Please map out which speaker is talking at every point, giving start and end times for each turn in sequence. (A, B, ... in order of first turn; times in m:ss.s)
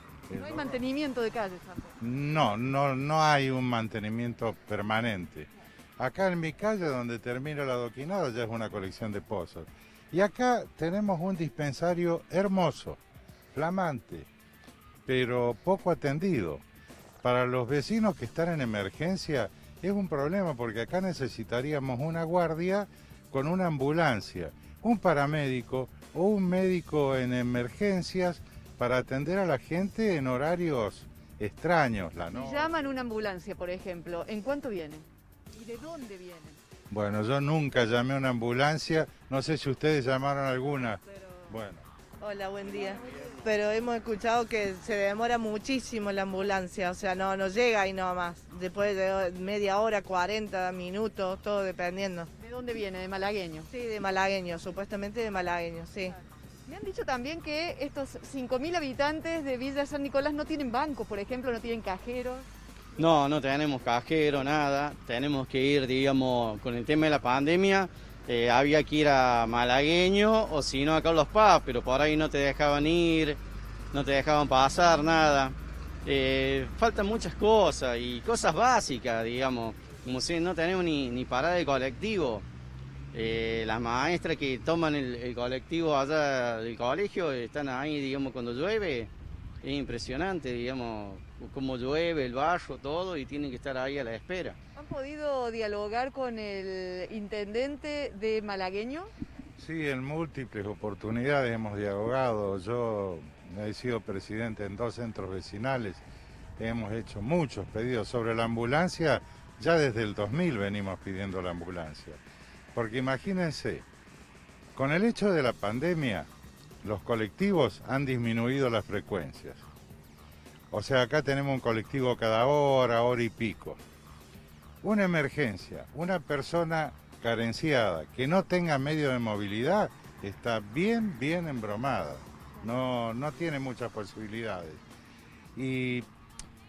0:00.3-0:00.8 A
0:00.4-0:02.0 B
0:02.0-0:13.0 A
0:13.5-0:14.3 A
0:15.1-0:16.6 A
0:17.2-0:32.7 A
0:32.3-0:36.6 B
0:36.9-0:41.8 A
0:42.2-0:52.3 C
0:52.4-0:53.7 B
0:53.7-0:56.2 C
0:56.0-1:02.5 B
1:03.0-1:13.4 D
1:13.9-1:22.5 D
1:23.1-1:29.1 D
1:29.6-1:34.6 D
1:34.8-1:39.1 B
1:39.6-1:46.0 A
1:46.6-1:52.2 A
1:52.8-1:53.8 A
1:54.8-1:56.3 A
1:56.8-1:59.7 A
2:00.7-2:03.8 A
2:04.8-2:14.8 A
2:15.6-2:16.1 A